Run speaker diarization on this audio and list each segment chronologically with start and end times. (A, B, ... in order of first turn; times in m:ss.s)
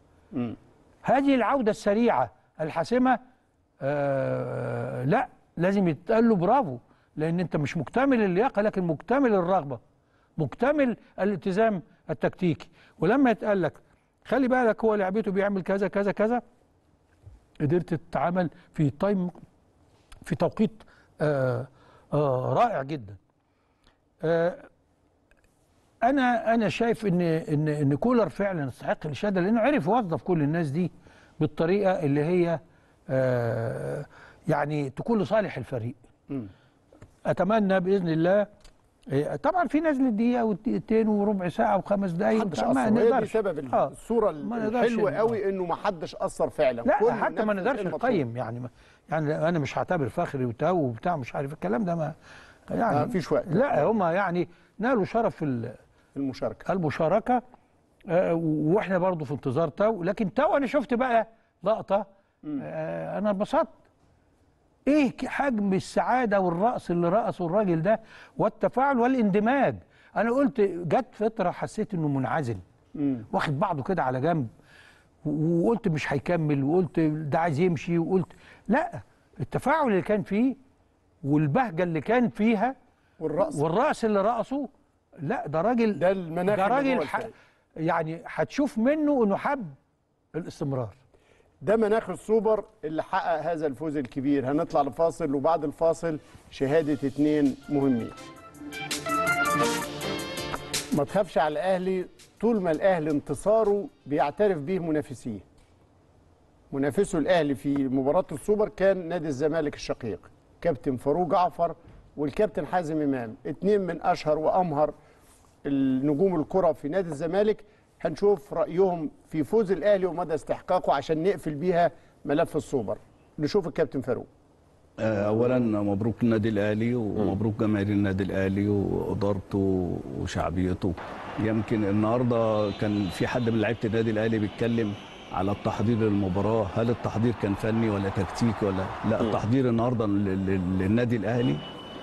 0:01.0-0:03.2 A
0:03.8-0:09.8 A
0:10.4-0:16.4 A
0:17.6-0:19.4 A
0:20.2-0:23.2 A
0:24.2-0:24.7 A
0:26.0-0:36.0 A
0:37.3-0:38.5 A
0:39.1-0:45.4 A
0:42.3-0:48.2 B
0:46.8-0:52.1 A
0:52.7-0:55.8 A
0:52.9-0:53.9 B
0:56.1-0:56.6 B
0:56.6-0:57.4 A
0:58.1-1:02.0 A
1:02.6-1:03.7 A
1:04.9-1:12.6 A
1:13.0-1:13.2 B
1:13.3-1:14.5 A
1:15.2-1:20.6 A
1:21.2-1:22.7 A
1:23.2-1:23.6 B
1:23.5-1:24.7 A
1:25.2-1:29.8 A
1:26.0-1:27.3 B
1:30.3-1:31.0 A
1:31.6-1:38.1 B
1:40.9-1:45.4 B
1:46.7-1:54.9 B
1:55.6-2:04.3 B
2:05.0-2:21.6 C